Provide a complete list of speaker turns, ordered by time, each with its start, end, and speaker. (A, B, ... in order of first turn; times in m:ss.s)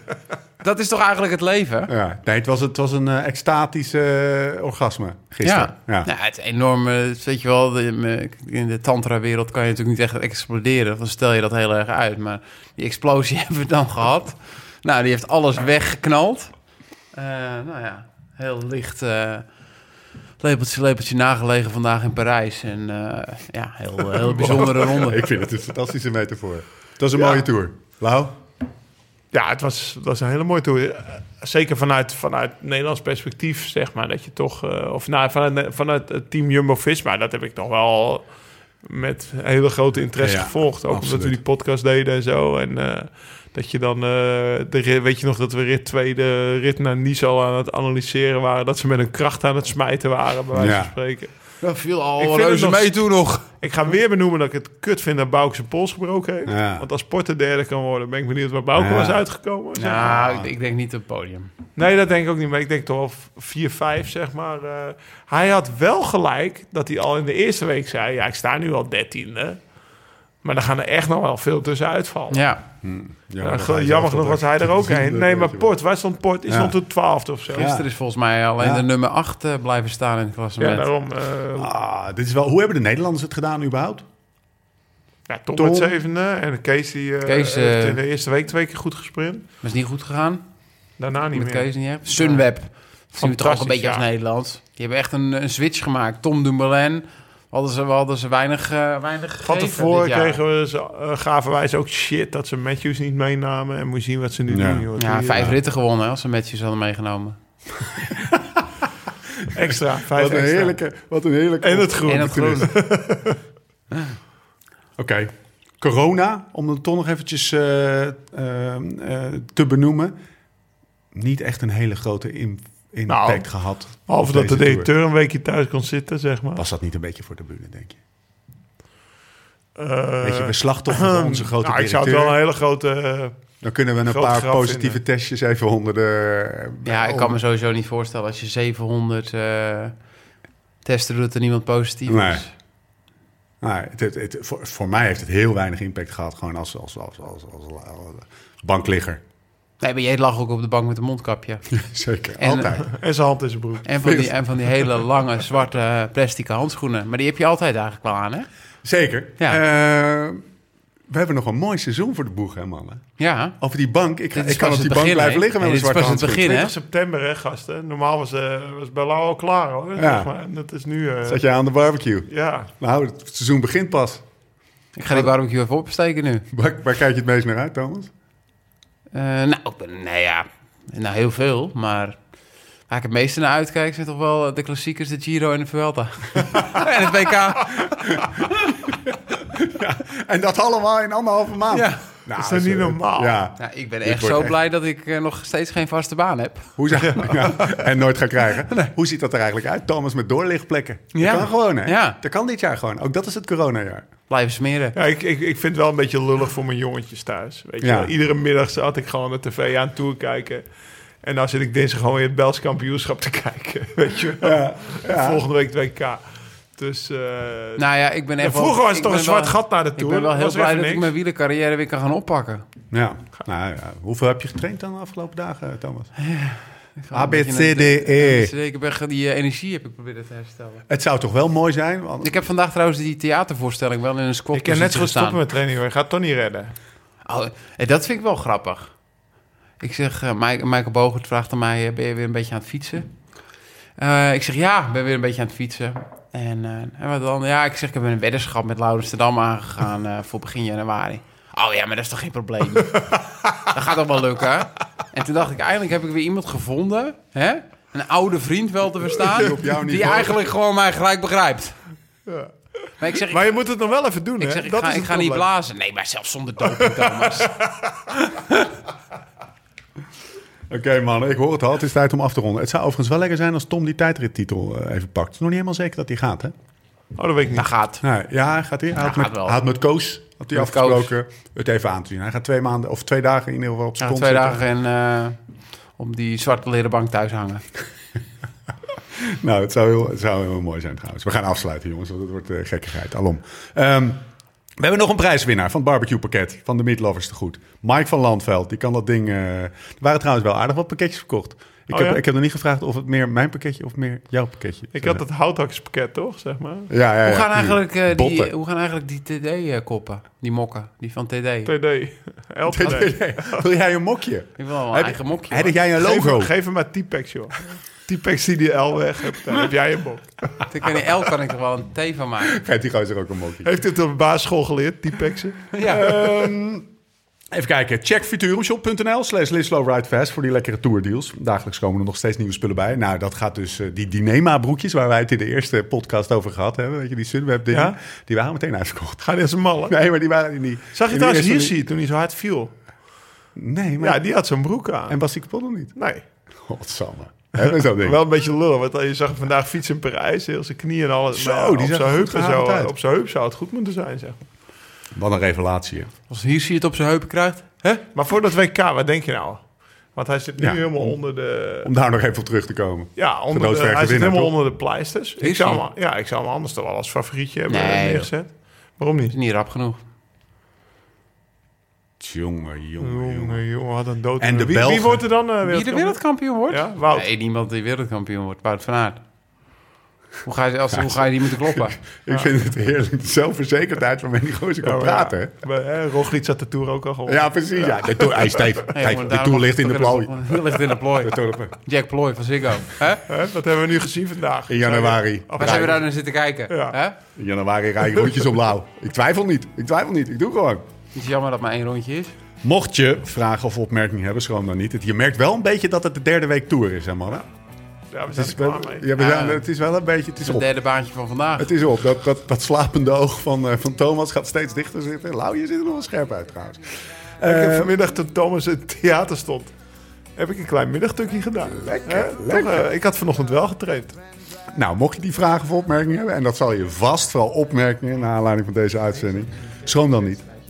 0:00.6-0:01.9 A
0:01.9-0:06.1 B
0:05.4-0:16.5 A
0:17.1-0:19.5 A
0:20.4-0:25.3 A
0:24.2-0:24.6 C
0:24.5-0:28.3 B
0:27.1-0:27.4 C
0:29.3-0:38.2 C
0:38.8-0:51.3 C
0:40.2-0:41.4 B
0:50.5-0:50.9 B
0:51.6-0:53.5 A
0:52.2-0:53.0 C
0:53.6-1:00.3 C
0:56.4-0:56.8 B
0:58.7-0:59.2 B
0:59.7-1:01.5 A
1:00.2-1:00.4 B
1:01.8-1:09.6 C
1:10.4-1:12.4 C
1:12.3-1:12.6 A
1:12.8-1:15.7 B
1:13.4-1:17.7 C
1:16.5-1:16.7 B
1:17.5-1:17.8 B
1:17.5-1:20.9 A
1:18.6-1:18.9 B
1:20.6-1:21.7 C
1:21.6-1:24.0 B
1:25.3-1:29.4 C
1:25.6-1:26.0 B
1:27.2-1:28.0 A
1:29.6-1:30.4 A
1:31.0-1:32.5 C
1:31.3-1:40.4 A
1:33.1-1:34.0 C
1:39.4-1:45.5 C
1:44.5-1:45.6 B
1:45.0-1:47.4 A
1:47.8-1:48.6 B
1:49.4-1:52.7 B
1:49.5-1:50.8 C
1:51.6-1:53.4 C
1:52.0-1:52.7 A
1:55.0-2:00.2 B
2:01.1-2:04.9 B
2:03.1-2:06.6 C
2:06.6-2:08.0 B
2:09.8-2:13.4 C
2:10.2-2:12.4 B
2:13.6-2:17.4 B
2:14.0-2:15.0 C
2:16.8-2:19.9 A
2:20.8-2:22.5 A
2:22.1-2:22.4 B
2:23.6-2:29.2 B
2:29.8-2:31.6 A
2:31.7-2:32.9 B
2:32.4-2:32.8 A
2:32.8-2:34.2 C
2:33.8-2:38.5 A
2:34.0-2:34.9 B
2:38.8-2:40.4 B
2:41.1-2:43.0 B
2:43.2-2:43.6 A
2:43.6-2:46.5 B
2:44.3-2:46.7 A
2:46.2-2:51.4 C
2:50.0-2:50.3 B
2:51.2-2:54.2 B
2:52.3-2:52.7 C
2:55.0-2:56.5 A
2:56.5-2:58.1 B
2:59.1-3:02.2 A
3:02.9-3:08.7 A
3:07.8-3:14.6 B
3:11.7-3:12.0 A
3:12.4-3:13.4 C
3:13.6-3:16.7 A
3:16.8-3:24.1 B
3:16.9-3:17.8 C
3:21.1-3:22.2 A
3:24.3-3:25.0 A
3:24.9-3:30.6 C
3:27.8-3:28.1 B
3:31.2-3:36.2 C
3:34.4-3:35.4 B
3:36.8-3:37.8 C
3:37.8-3:42.6 A
3:38.4-3:41.1 C
3:42.9-3:46.1 B
3:46.2-3:50.8 A
3:47.1-3:48.5 B
3:50.9-3:52.4 B
3:52.2-3:55.4 A
3:54.5-3:56.7 C
3:57.2-3:58.9 A
3:59.8-4:03.1 A
4:04.0-4:21.8 A
4:19.1-4:20.4 B
4:23.0-4:23.6 A
4:23.1-4:25.5 C
4:24.4-4:27.6 A
4:26.8-4:28.0 C
4:28.1-4:28.7 A
4:30.7-4:36.5 B
4:37.2-4:37.7 C
4:37.5-4:38.0 A
4:38.0-4:44.6 B
4:39.0-4:39.7 A
4:40.5-4:41.1 A
4:44.0-4:45.4 A
4:46.0-4:47.6 A
4:49.1-4:54.2 B
4:54.8-5:05.2 B
5:01.9-5:02.2 C
5:04.9-5:06.9 C
5:06.9-5:08.5 B
5:07.2-5:11.7 A
5:11.6-5:13.6 C
5:12.7-5:16.5 B
5:14.6-5:15.8 A
5:16.0-5:20.6 C
5:20.7-5:22.6 A
5:22.5-5:23.8 B
5:23.6-5:26.6 C
5:25.7-5:26.0 A
5:25.8-5:26.9 B
5:27.5-5:39.2 B
5:37.7-5:38.0 C
5:39.2-5:40.0 C
5:39.8-5:41.8 B
5:40.9-5:42.7 C
5:43.6-5:44.2 B
5:44.0-5:45.2 C
5:45.1-5:45.9 B
5:46.0-5:46.2 C
5:46.6-5:48.2 B
5:47.6-5:54.4 C
5:51.3-5:52.9 B
5:55.1-5:56.1 B
5:56.3-5:58.0 A
5:58.1-6:01.9 C
6:00.6-6:01.2 B
6:01.8-6:04.5 B
6:03.2-6:09.4 C
6:05.4-6:05.8 A
6:07.7-6:08.3 A
6:09.3-6:10.0 A
6:12.2-6:13.6 B
6:13.0-6:17.3 C
6:14.4-6:15.2 B
6:15.6-6:19.2 A
6:20.4-6:22.0 A
6:20.9-6:25.5 B
6:22.3-6:22.5 C
6:24.8-6:28.9 C
6:27.3-6:31.8 B
6:28.9-6:33.2 A
6:33.3-6:36.0 C
6:34.7-6:36.0 B
6:35.6-6:37.2 A
6:36.7-6:37.0 C
6:37.4-6:40.8 B
6:38.2-6:38.5 C
6:41.1-6:42.3 A
6:42.6-6:47.4 B
6:48.1-6:49.1 C
6:48.3-6:50.7 B
6:49.1-6:49.6 A
6:50.4-6:51.7 A
6:51.6-6:58.0 B
6:57.4-6:59.7 C
7:00.4-7:04.2 C
7:01.6-7:02.9 B
7:04.7-7:10.4 B